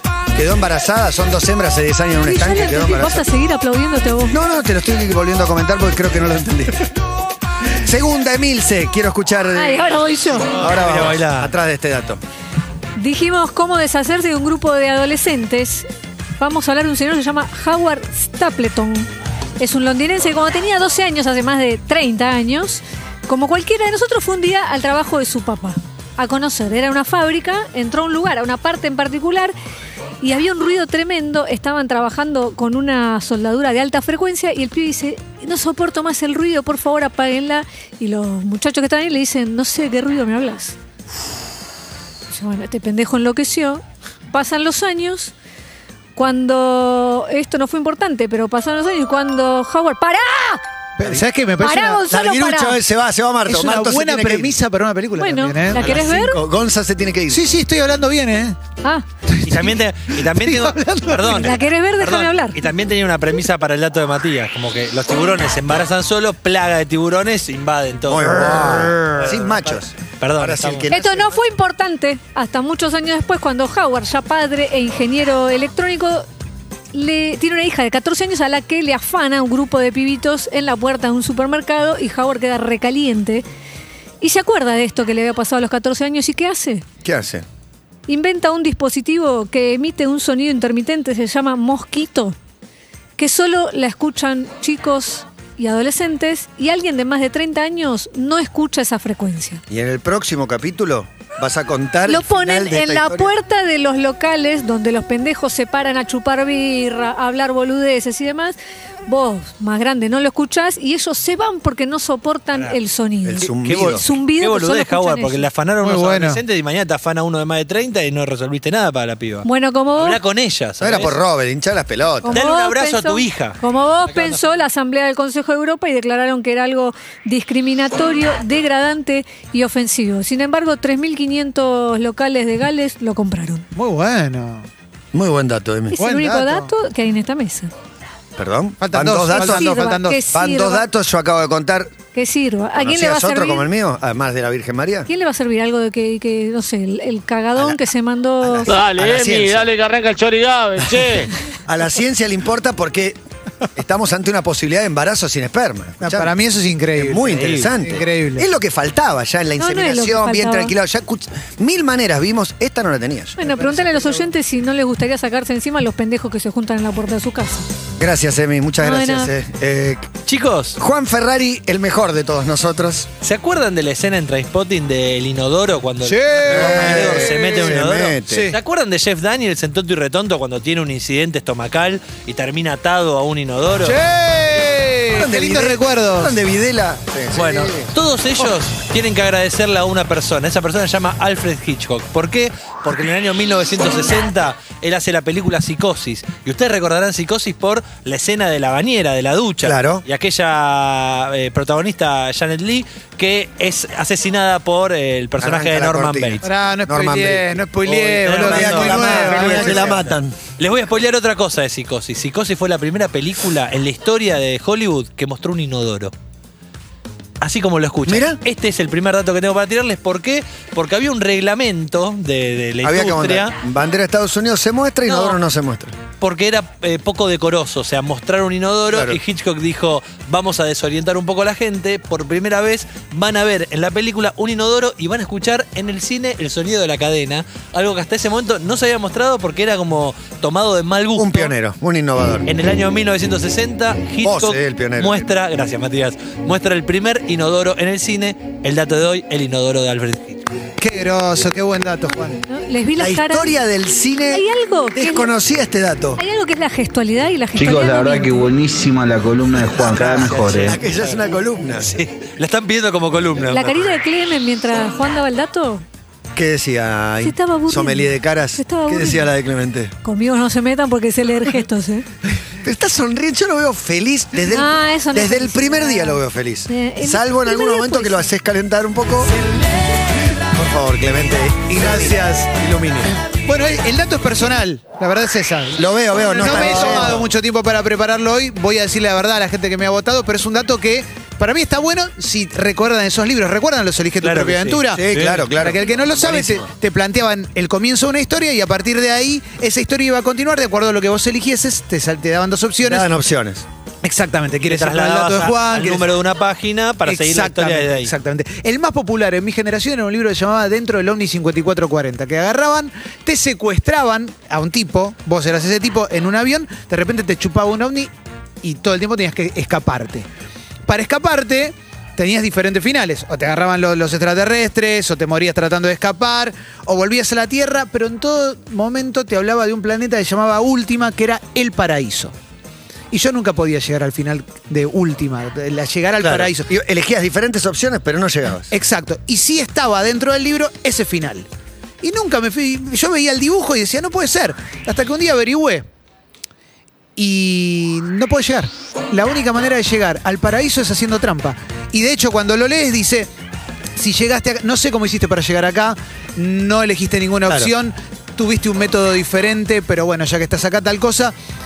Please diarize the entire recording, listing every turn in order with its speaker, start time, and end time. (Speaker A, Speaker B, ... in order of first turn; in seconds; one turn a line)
Speaker A: 0.3-3.2
Speaker B: 2.2-4.4
Speaker A: 4.3-6.9
Speaker A: 7.7-9.9
Speaker B: 9.6-10.6
Speaker A: 10.5-12.2
Speaker C: 10.6-11.5
Speaker B: 13.0-15.9
Speaker B: 16.4-29.5
Speaker B: 30.2-40.8
Speaker B: 42.3-45.3
Speaker B: 46.2-50.6
Speaker D: 51.0-52.0
Speaker A: 51.0-51.3
Speaker B: 51.6-52.8
Speaker A: 52.1-54.6
Speaker D: 53.5-55.9
Speaker B: 55.2-56.4
Speaker A: 55.8-57.5
Speaker D: 57.3-58.6
Speaker D: 59.3-61.5
Speaker C: 59.5-70.9
Speaker B: 61.4-62.6
Speaker A: 68.1-71.4
Speaker B: 70.9-76.3
Speaker B: 76.9-83.4
Speaker B: 84.2-86.8
Speaker A: 87.0-87.5
Speaker B: 88.1-92.4
Speaker B: 93.2-99.6
Speaker A: 99.7-103.3
Speaker B: 102.1-115.5
Speaker A: 113.2-114.0
Speaker C: 113.6-121.2
Speaker D: 115.8-116.4
Speaker B: 119.4-120.2
Speaker A: 120.8-122.4
Speaker B: 122.2-133.7
Speaker C: 122.3-124.6
Speaker D: 133.8-134.7
Speaker A: 135.1-136.0
Speaker B: 135.9-137.7
Speaker D: 136.0-136.7
Speaker A: 138.4-141.9
Speaker D: 138.8-140.2
Speaker B: 139.3-140.9
Speaker B: 142.1-143.7
Speaker A: 142.8-145.1
Speaker B: 145.1-148.8
Speaker A: 148.4-149.7
Speaker E: 148.8-151.0
Speaker A: 150.8-153.2
Speaker A: 153.8-156.3
Speaker D: 156.0-158.5
Speaker A: 157.0-163.4
Speaker B: 159.6-160.7
Speaker B: 163.4-167.7
Speaker D: 163.4-164.3
Speaker A: 168.0-170.2
Speaker B: 168.8-169.3
Speaker C: 170.3-170.8
Speaker A: 170.8-173.1
Speaker C: 173.2-184.0
Speaker D: 176.0-178.6
Speaker A: 176.5-178.5
Speaker D: 183.8-186.3
Speaker A: 185.1-187.9
Speaker C: 187.3-206.4
Speaker A: 199.6-200.1
Speaker A: 205.4-210.4
Speaker D: 206.4-210.0
Speaker C: 207.8-216.1
Speaker C: 217.4-223.5
Speaker A: 218.1-218.4
Speaker A: 222.8-225.9
Speaker C: 225.1-225.4
Speaker C: 226.2-241.5
Speaker A: 228.9-229.2
Speaker A: 241.2-242.7
Speaker C: 242.5-250.4
Speaker A: 244.2-245.3
Speaker D: 250.8-252.4
Speaker B: 252.5-253.6
Speaker A: 253.0-256.2
Speaker B: 254.3-255.3
Speaker B: 256.2-258.5
Speaker F: 257.6-260.8
Speaker A: 259.7-261.9
Speaker C: 261.0-261.2
Speaker C: 261.8-263.9
Speaker B: 263.5-265.8
Speaker A: 266.4-269.9
Speaker B: 267.2-269.3
Speaker B: 270.0-272.1
Speaker A: 272.6-279.3
Speaker B: 274.5-278.3
Speaker A: 280.4-283.1
Speaker D: 281.7-282.5
Speaker D: 283.4-303.1
Speaker A: 285.8-287.3
Speaker C: 286.5-287.2
Speaker C: 294.2-295.5
Speaker A: 294.9-296.7
Speaker A: 302.8-303.7
Speaker D: 304.0-306.1
Speaker C: 304.7-308.1
Speaker D: 307.1-318.1
Speaker D: 318.6-320.3
Speaker D: 320.9-332.4
Speaker D: 333.1-336.7
Speaker A: 336.2-338.7
Speaker D: 338.7-341.5
Speaker D: 342.0-345.9
Speaker D: 347.2-353.3
Speaker D: 354.0-361.3
Speaker A: 357.5-357.7